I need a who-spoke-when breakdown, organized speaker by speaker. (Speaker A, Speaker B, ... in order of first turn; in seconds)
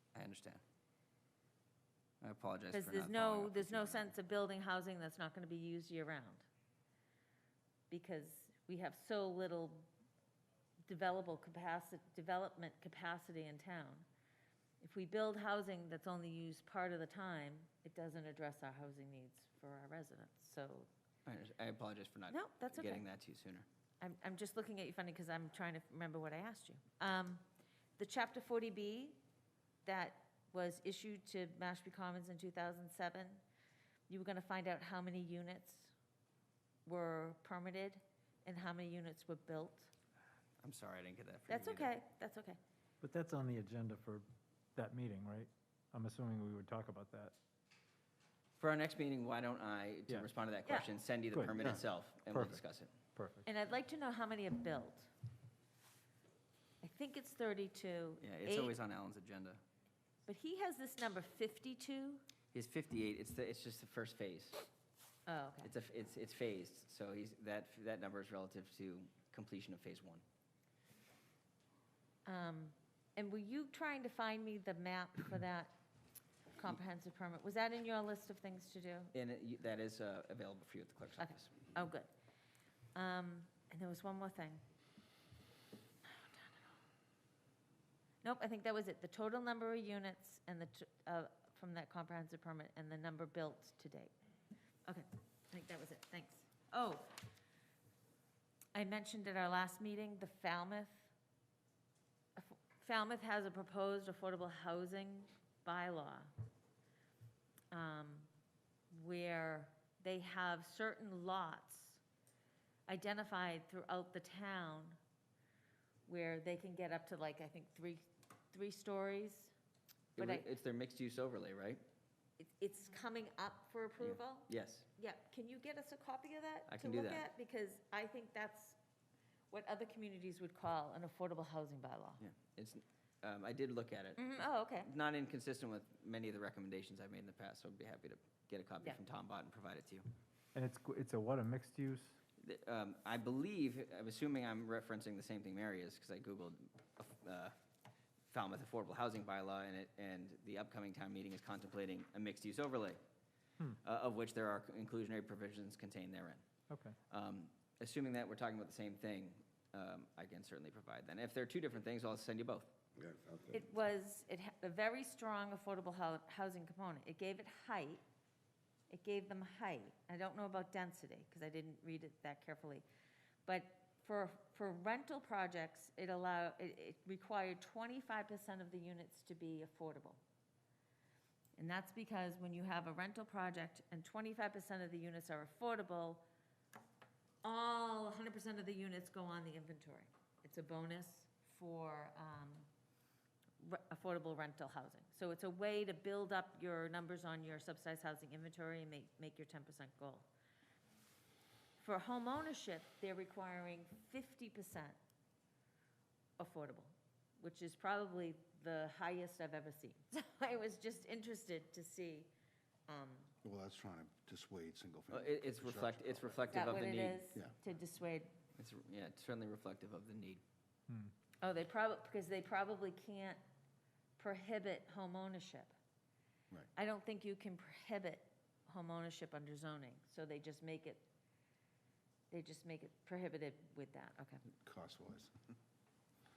Speaker A: 0.1-0.6, 2.2-4.1, 21.2-23.6, 40.6-41.9, 48.6-52.9, 58.2-59.6, 62.5-64.7, 65.6-70.2, 79.1-81.5, 120.2-121.8, 124.0-124.9, 126.7-127.3, 132.2-140.0, 142.4-147.5, 148.3-153.0, 153.8-156.4, 157.1-162.7, 215.1-217.2, 218.5-220.4
Speaker B: 2.7-6.5, 7.9-9.9, 10.8-14.1, 14.8-20.9, 22.3-23.0, 24.0-27.4, 28.0-29.2, 29.9-33.4, 34.1-35.9, 36.9-39.9, 41.5-42.6, 53.5-55.1, 56.8-58.7, 60.3-62.2, 65.3-65.7, 72.2-75.7, 76.6-79.1, 81.2-82.1, 82.9-84.6, 88.2-94.1, 94.8-97.2, 98.7-101.1, 102.4-106.3, 107.7-108.3, 108.9-112.0, 112.9-115.0, 116.1-119.5, 120.2-120.5, 122.4-128.8, 129.5-132.2, 134.2-134.9, 163.5-168.0, 168.9-172.8, 173.4-180.2, 181.6-186.2, 187.4-192.7, 193.6-200.3, 201.8-205.0, 206.4-212.3, 212.9-213.3, 216.5-218.3, 221.4-223.4, 224.2-225.7, 226.8-231.1, 232.3-234.4
Speaker C: 43.0-44.2, 44.8-47.3, 51.3-51.7, 52.3-52.6, 53.2-53.4, 140.5-142.2, 156.7-156.9
Speaker D: 213.4-216.8, 234.6-235.3